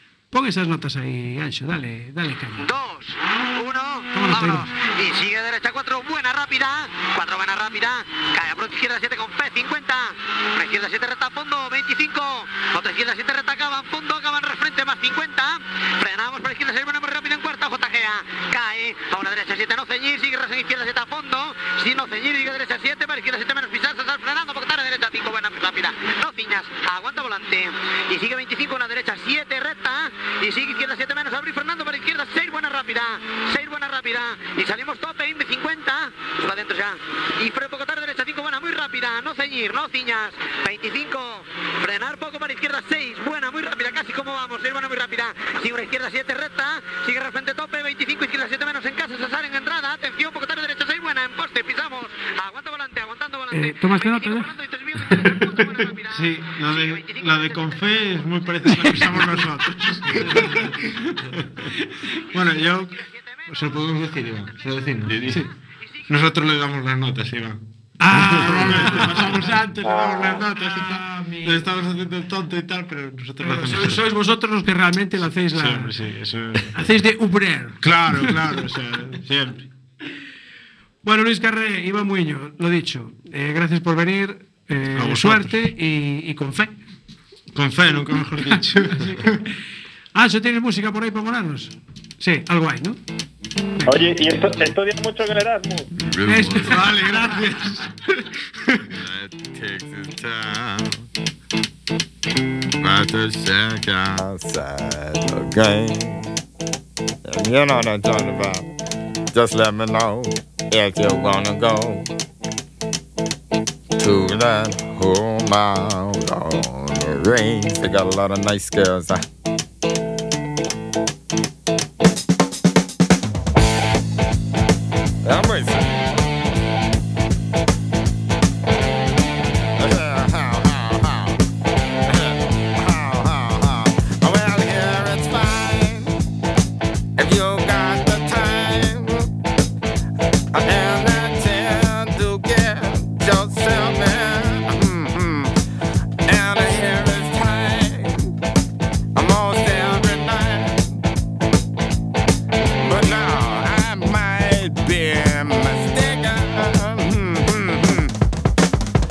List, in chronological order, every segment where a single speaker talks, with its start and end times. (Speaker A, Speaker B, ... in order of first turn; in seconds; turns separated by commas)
Speaker A: 0.3-2.7, Speaker B: 2.6-57.9, Speaker A: 4.1-4.7, Speaker A: 53.5-54.5, Speaker C: 56.1-61.5, Speaker A: 58.7-59.0, Speaker C: 62.3-65.5, Speaker C: 66.1-67.6, Speaker A: 68.0-69.4, Speaker C: 68.1-74.1, Speaker A: 70.7-71.7, Speaker A: 73.4-75.9, Speaker C: 75.5-76.8, Speaker A: 76.7-78.3, Speaker C: 77.8-79.6, Speaker A: 81.0-86.8, Speaker C: 84.9-85.5, Speaker C: 87.5-89.4, Speaker A: 88.6-89.4, Speaker A: 90.1-93.0, Speaker A: 93.8-94.1, Speaker D: 93.8-95.9, Speaker E: 96.0-97.3, Speaker A: 96.2-96.9, Speaker C: 96.5-98.8, Speaker E: 98.9-101.0, Speaker E: 102.8-106.3, Speaker E: 107.2-108.7, Speaker E: 109.3-112.1, Speaker E: 114.0-119.2, Speaker E: 125.2-125.9, Speaker E: 129.8-131.4, Speaker E: 132.1-136.1, Speaker E: 137.2-139.3, Speaker E: 140.5-145.5, Speaker E: 146.2-148.3, Speaker E: 149.1-151.0, Speaker E: 152.8-158.1